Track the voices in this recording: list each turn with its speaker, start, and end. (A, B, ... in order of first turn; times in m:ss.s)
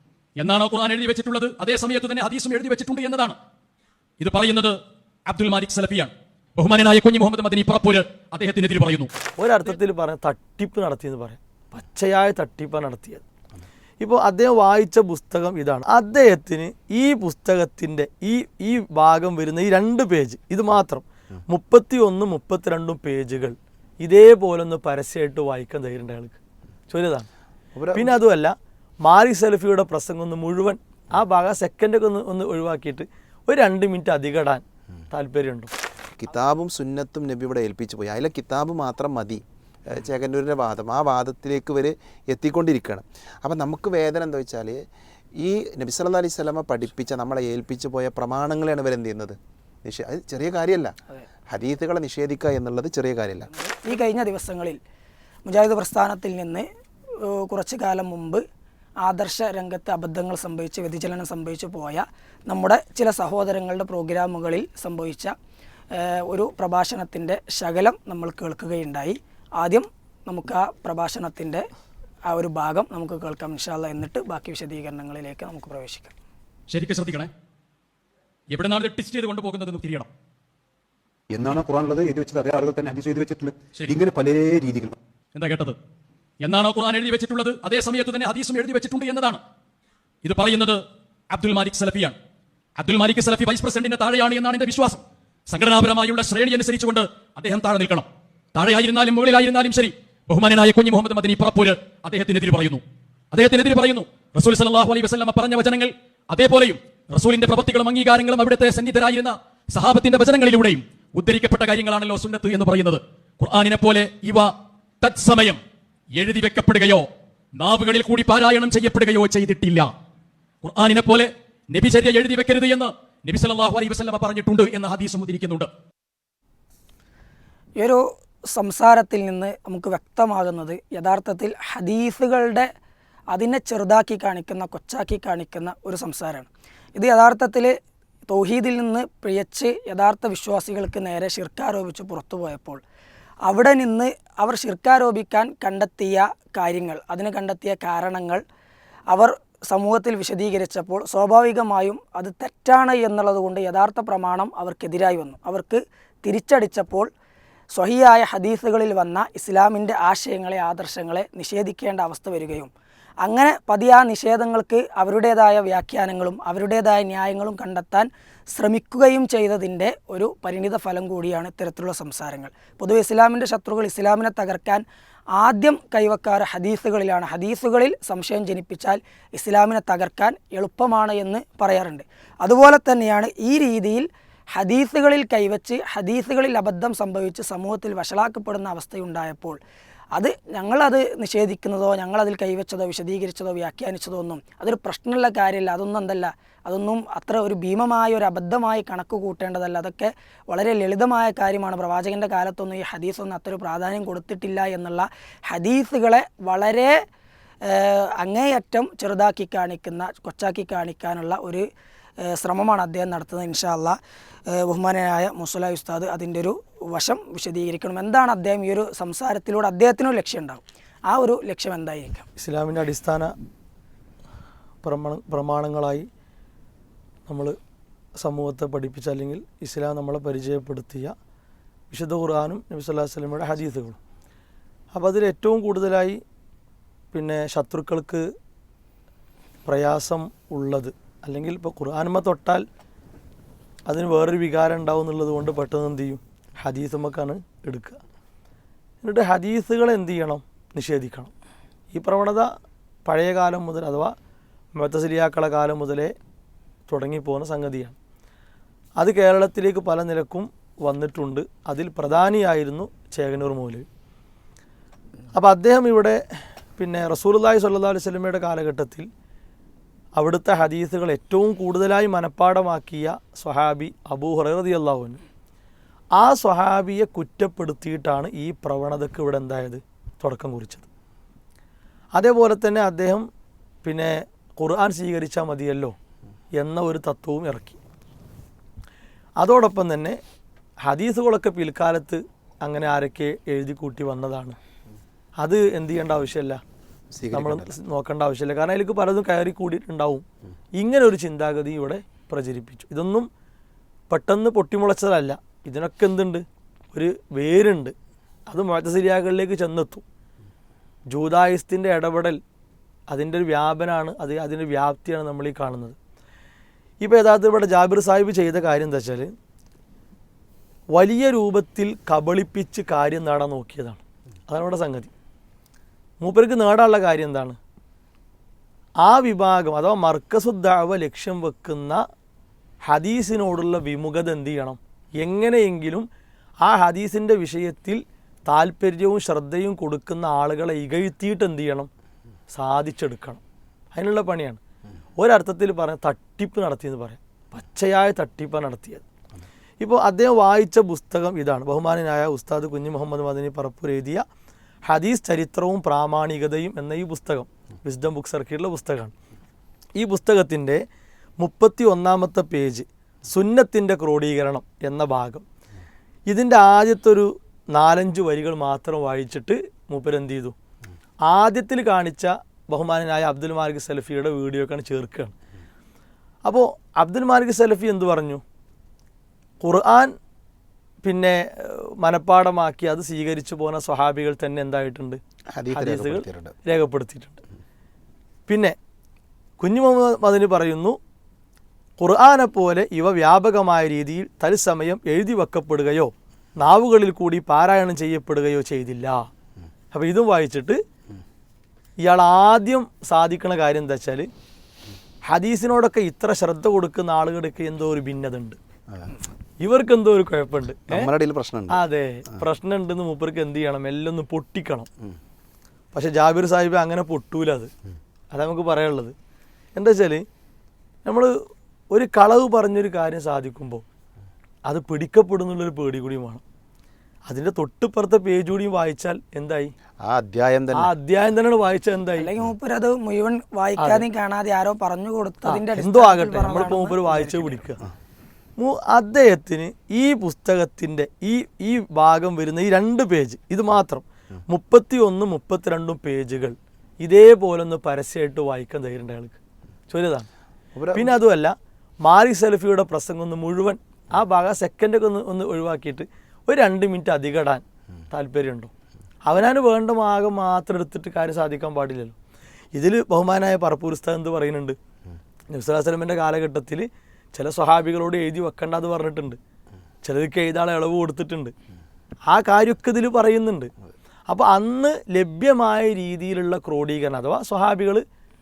0:00.4-0:03.4 A
0:04.2-0:09.1 A
0:09.4-0:13.2 B
0:14.0-0:26.4 B
0:26.9-0:27.3 B
0:27.8-0:28.2 C
0:27.9-0:35.7 B
0:36.2-0:44.8 C
0:45.4-0:50.9 C
0:51.5-0:53.5 C
0:53.5-0:54.8 D
0:55.5-0:56.7 D
0:57.2-0:58.4 D
0:59.0-1:05.4 D
1:05.9-1:11.6 D
1:12.3-1:16.1 D
1:16.7-1:17.3 A
1:18.5-1:20.1 A
1:21.3-1:25.0 E
1:25.4-1:25.8 A
1:26.4-1:29.4 A
1:30.2-1:32.2 A
1:32.8-1:42.8 A
1:43.3-1:55.6 A
1:56.2-1:59.9 A
2:00.6-2:05.7 A
2:07.8-2:12.7 D
2:13.3-2:17.8 D
2:18.3-2:22.8 D
2:23.4-2:28.4 D
2:29.1-2:37.1 D
2:37.7-2:42.7 D
2:43.2-2:54.8 D
2:55.3-3:09.6 D
3:10.2-3:27.0 D
3:27.6-3:31.7 D
3:32.2-3:34.0 D
3:34.5-3:42.3 D
3:42.4-3:43.3 B
3:44.8-3:46.1 B
3:47.3-3:47.6 B
3:48.2-3:51.2 B
3:51.9-3:54.0 B
3:54.9-3:56.2 B
3:57.1-3:58.2 B
3:59.7-4:02.6 B
4:03.9-4:08.0 B
4:09.0-4:11.3 B
4:11.9-4:12.5 B
4:13.1-4:14.2 B
4:14.8-4:16.1 B
4:16.9-4:18.0 B
4:19.0-4:23.8 B
4:25.3-4:26.2 B
4:26.8-4:29.1 B
4:30.2-4:35.2 B
4:36.2-4:40.9 B
4:42.2-4:43.3 B
4:43.8-4:46.0 B
4:46.6-4:47.8 B
4:49.4-4:50.2 B
4:50.8-4:54.6 B
4:55.4-4:56.6 B
4:57.2-4:57.8 C
4:57.3-5:00.2 B
5:00.8-5:03.3 B
5:04.1-5:07.9 B
5:08.5-5:10.0 B
5:11.1-5:12.4 B
5:13.1-5:16.0 B
5:17.0-5:19.3 B
5:20.9-5:25.1 B
5:26.2-5:27.6 B
5:29.0-5:32.0 B
5:32.8-5:36.1 B
5:36.6-5:41.9 B
5:42.5-5:43.4 B
5:43.9-5:44.6 B
5:45.2-5:49.0 B
5:49.8-5:54.2 B
5:54.9-5:59.1 B
6:00.0-6:00.8 B
6:01.4-6:05.4 B
6:06.3-6:10.5 B
6:11.3-6:15.3 B
6:16.5-6:18.4 B
6:19.6-6:20.1 B
6:21.0-6:25.2 B
6:25.6-6:26.5 C
6:25.7-6:27.4 B
6:28.5-6:28.8 B
6:29.6-6:31.0 B
6:32.0-6:39.3 B
6:39.9-6:40.8 B
6:42.0-6:44.3 B
6:45.3-6:48.6 B
6:49.6-6:51.1 B
6:50.9-6:52.4 C
6:51.7-6:54.9 B
6:55.9-6:57.7 B
6:58.3-6:59.1 B
6:59.8-7:00.2 B
7:01.0-7:01.4 B
7:01.9-7:03.8 B
7:04.7-7:06.4 B
7:07.3-7:09.7 B
7:10.0-7:10.9 C
7:10.7-7:12.3 B
7:12.2-7:17.6 D
7:13.8-7:14.1 B
7:15.4-7:17.8 B
7:18.6-7:29.4 B
7:29.9-7:30.3 B
7:30.8-7:31.2 C
7:30.9-7:38.7 B
7:39.3-7:42.2 B
7:42.8-7:44.8 B
7:45.5-7:49.4 B
7:50.0-7:51.5 B
7:52.3-7:53.7 B
7:54.3-7:58.0 B